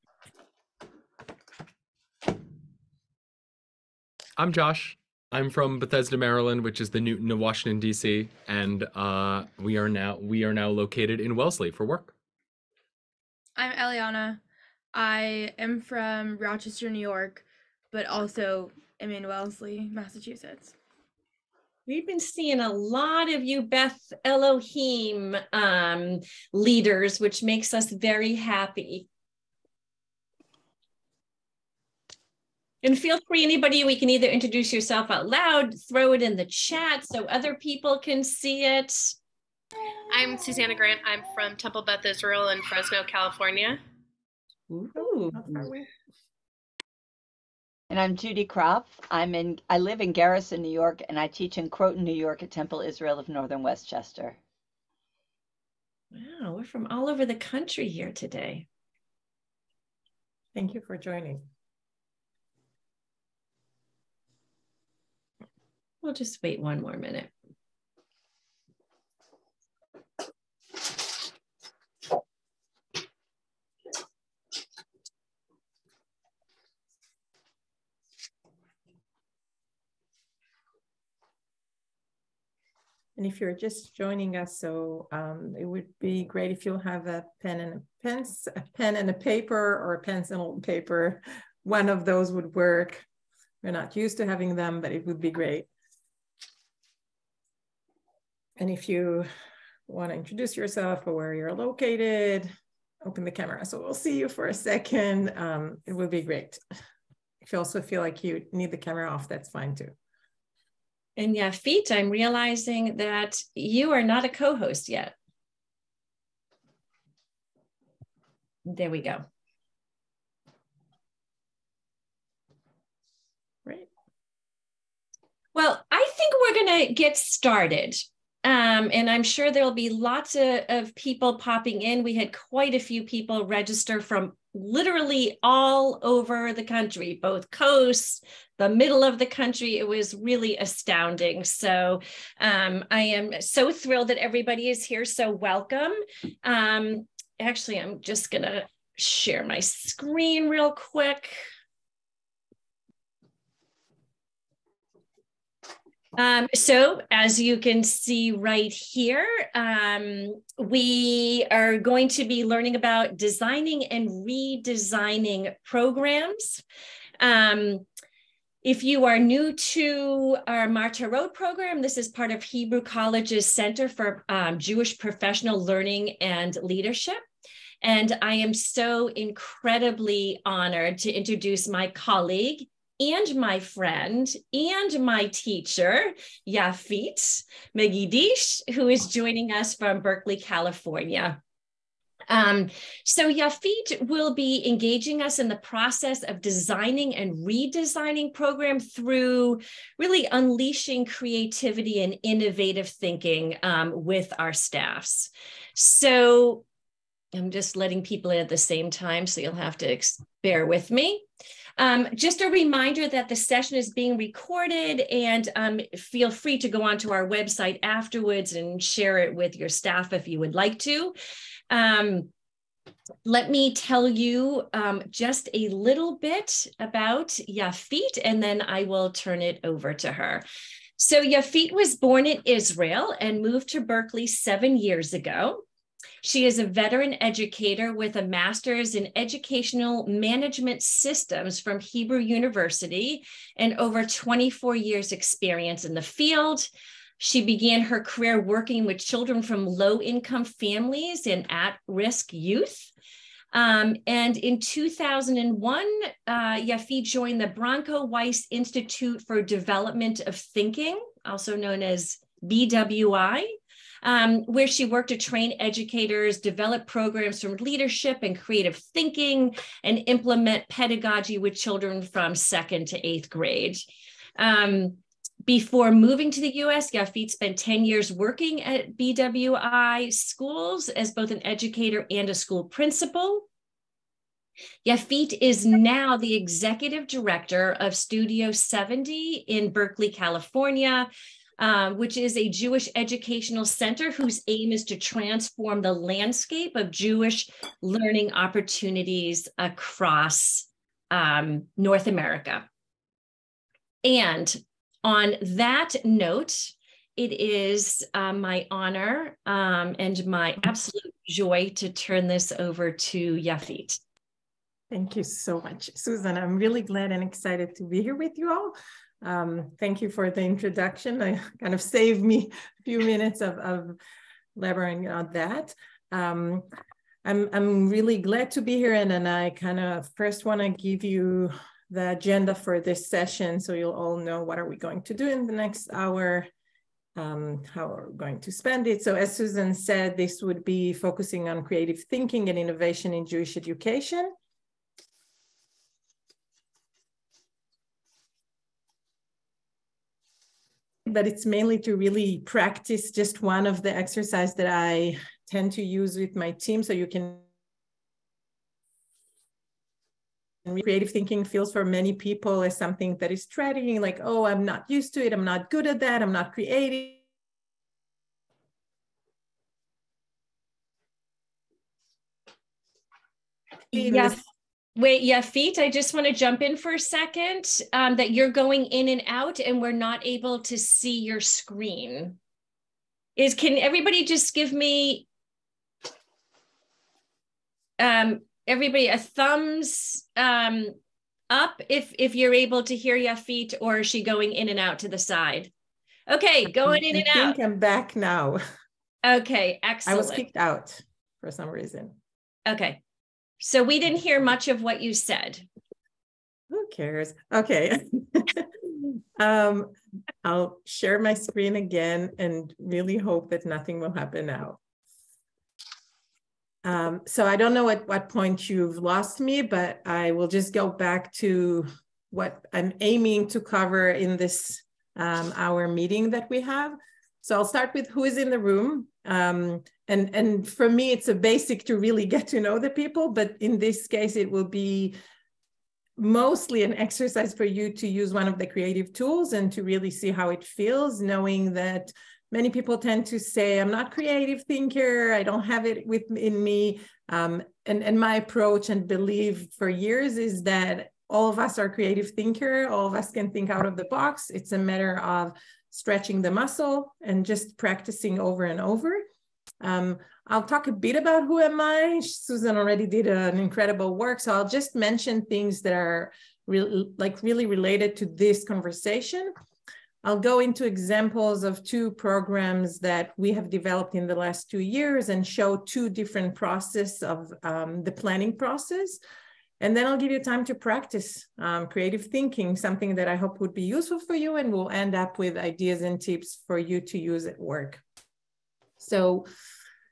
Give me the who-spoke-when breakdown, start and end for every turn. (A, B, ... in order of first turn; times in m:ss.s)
0:04.4-0:12.1 A
0:13.6-0:14.4 B
0:14.9-0:20.8 B
0:21.9-0:29.1 C
0:32.8-0:39.2 C
0:40.1-0:43.8 D
0:44.7-0:45.4 C
0:45.0-0:45.9 E
0:47.9-0:54.4 F
0:56.1-0:58.7 C
1:00.6-1:01.4 E
1:06.0-1:07.3 C
1:23.2-1:33.0 E
1:33.6-1:35.7 E
1:38.6-1:39.3 E
1:39.9-1:42.5 E
1:43.0-1:46.6 E
1:47.4-1:50.0 E
1:51.2-1:55.2 C
1:58.6-1:59.2 C
2:05.5-2:31.4 C
2:36.2-2:46.6 C
2:47.2-2:47.9 C
2:48.6-2:57.2 C
2:57.8-3:11.4 C
3:12.3-3:26.6 C
3:27.3-3:31.2 C
3:31.8-3:41.2 C
3:41.7-3:42.3 C
3:43.2-3:50.4 C
3:51.0-3:55.6 C
3:56.2-4:12.9 C
4:13.5-4:33.8 C
4:34.4-4:43.5 C
4:44.8-5:02.7 C
5:04.0-5:14.0 C
5:14.9-5:24.0 E
5:24.6-5:26.7 E
5:27.2-5:36.5 E
5:37.2-5:44.3 E
5:51.1-5:57.5 E
6:00.7-6:07.2 E
6:13.9-6:14.4 E
6:13.9-6:14.4 C
6:15.0-6:22.4 C
6:23.4-6:25.3 C
6:28.0-6:31.0 C
6:31.5-6:35.7 C
6:36.3-6:37.6 C
6:36.9-6:38.6 E
6:39.2-6:40.4 C
6:40.1-6:42.2 E
6:42.7-6:43.0 C
6:43.6-6:45.7 C
6:46.7-6:49.9 E
6:50.4-6:54.8 E
6:56.8-7:15.2 E
7:16.2-7:39.2 E
7:39.8-7:49.5 E
7:50.2-7:59.2 E
7:59.8-8:08.0 E
8:09.0-8:09.5 E